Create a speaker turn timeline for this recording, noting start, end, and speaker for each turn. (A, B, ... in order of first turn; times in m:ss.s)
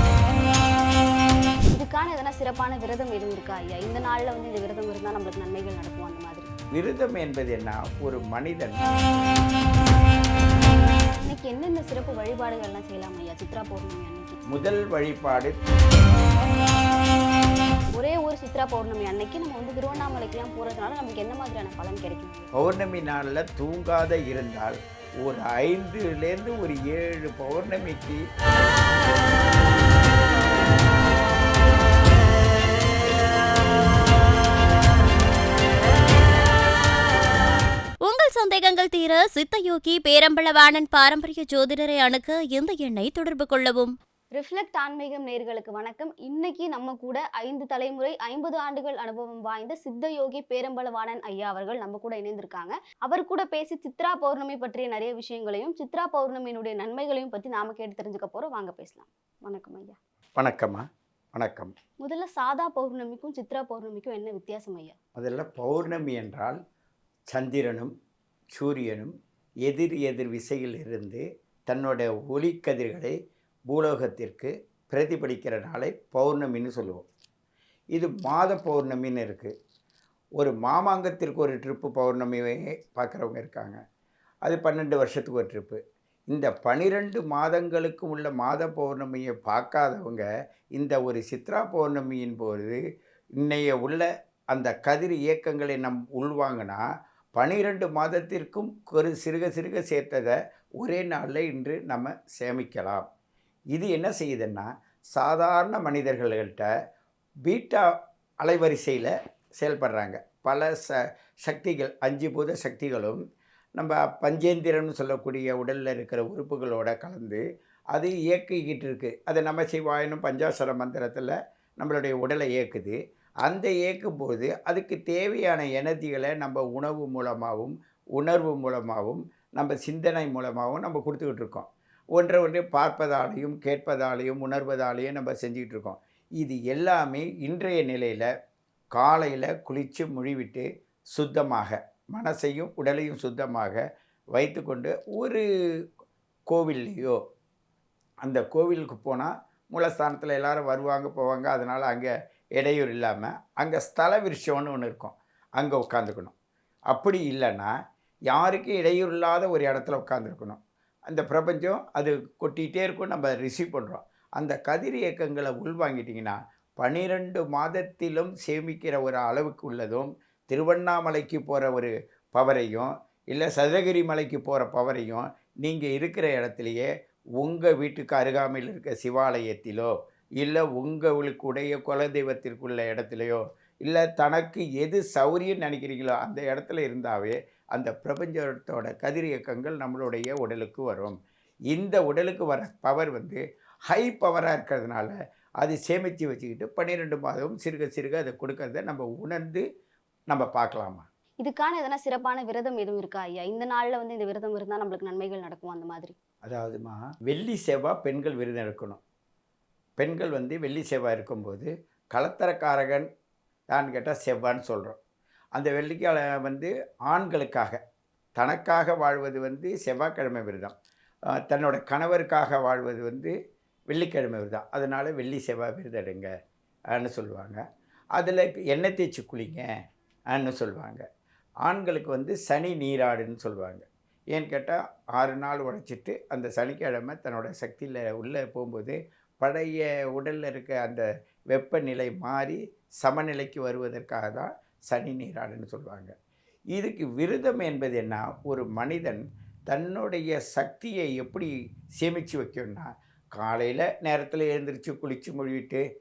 0:01.7-0:06.5 A
0:06.7-0:08.8 B
0:11.2-0:14.4 A
0:14.5-0:15.6 B
0:17.9-0:22.5 A
0:22.6-0:28.2 B
0:38.0-0:43.9 C
0:44.3-1:00.0 A
1:00.4-1:00.8 B
1:01.3-1:01.7 B
1:02.0-1:05.0 A
1:05.2-1:06.6 B
1:07.3-1:07.9 B
1:08.5-1:09.1 B
1:09.6-1:13.1 B
1:13.7-1:17.0 B
1:17.9-1:19.5 B
1:20.4-1:23.8 B
1:24.4-1:25.8 B
1:26.3-1:32.8 B
1:33.4-1:36.8 B
1:37.4-1:43.0 B
1:43.7-1:46.7 B
1:47.4-1:47.8 B
1:48.4-1:53.2 B
1:53.8-1:57.4 B
1:57.9-2:18.3 B
2:18.9-2:23.8 B
2:24.3-2:25.4 B
2:26.5-2:27.2 B
2:28.2-2:36.3 B
2:36.9-2:37.7 B
2:38.3-2:56.9 B
2:57.4-3:11.1 B
3:11.7-3:19.6 B
3:20.3-3:21.1 B
3:21.4-3:26.2 A
3:26.4-3:29.0 B
3:30.0-3:33.1 B
3:33.7-3:35.0 B
3:35.5-3:37.8 B
3:38.4-3:40.7 B
3:41.3-3:43.3 B
3:43.9-3:46.3 B
3:46.9-3:47.6 B
3:48.1-3:49.7 B
3:50.3-3:51.0 B
3:51.6-4:06.1 B
4:06.7-4:15.8 B